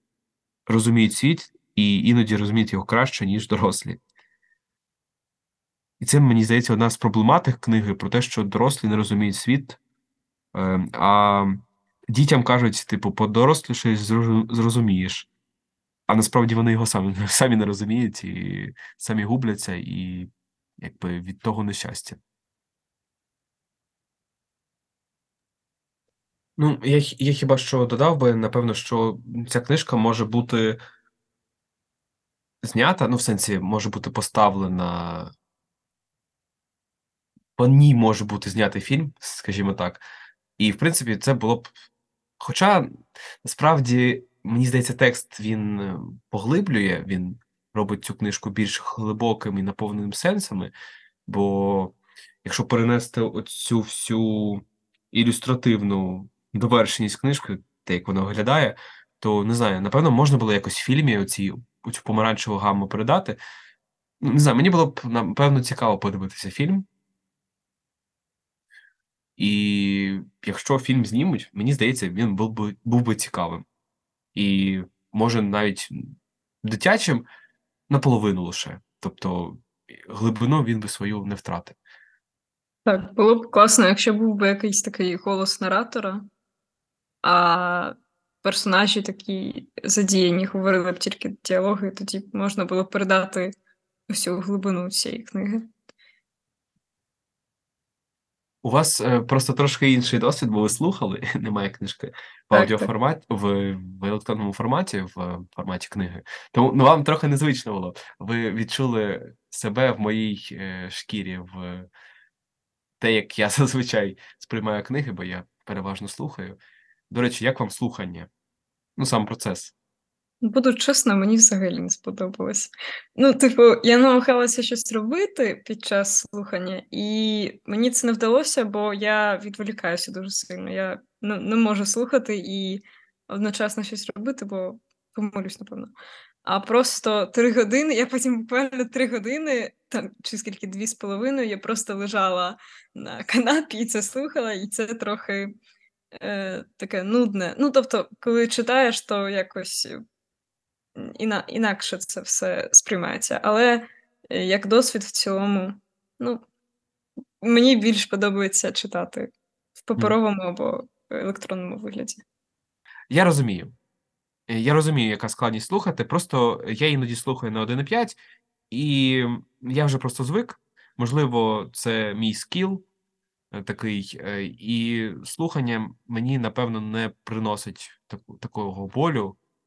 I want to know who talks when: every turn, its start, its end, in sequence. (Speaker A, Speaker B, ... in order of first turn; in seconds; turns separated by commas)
Speaker A: 0.7-4.0, Speaker A: 6.0-9.8, Speaker A: 10.5-15.3, Speaker A: 16.1-22.2, Speaker A: 26.6-30.8, Speaker A: 32.6-35.3, Speaker A: 37.6-40.0, Speaker A: 40.6-41.7, Speaker A: 42.4-50.7, Speaker A: 51.2-63.4, Speaker A: 64.2-66.8, Speaker A: 69.4-73.6, Speaker A: 74.3-77.2, Speaker A: 77.9-81.8, Speaker B: 82.8-86.2, Speaker B: 87.2-93.5, Speaker B: 94.1-95.7, Speaker A: 98.6-111.9, Speaker B: 102.5-102.9, Speaker A: 113.0-116.6, Speaker A: 117.1-118.3, Speaker A: 119.0-119.7, Speaker B: 120.4-135.9, Speaker B: 136.4-145.5, Speaker B: 146.1-150.0, Speaker B: 151.0-156.4, Speaker B: 157.4-159.3, Speaker B: 159.9-162.2, Speaker A: 163.1-163.7, Speaker A: 164.5-168.2, Speaker A: 168.7-172.8, Speaker A: 173.5-179.4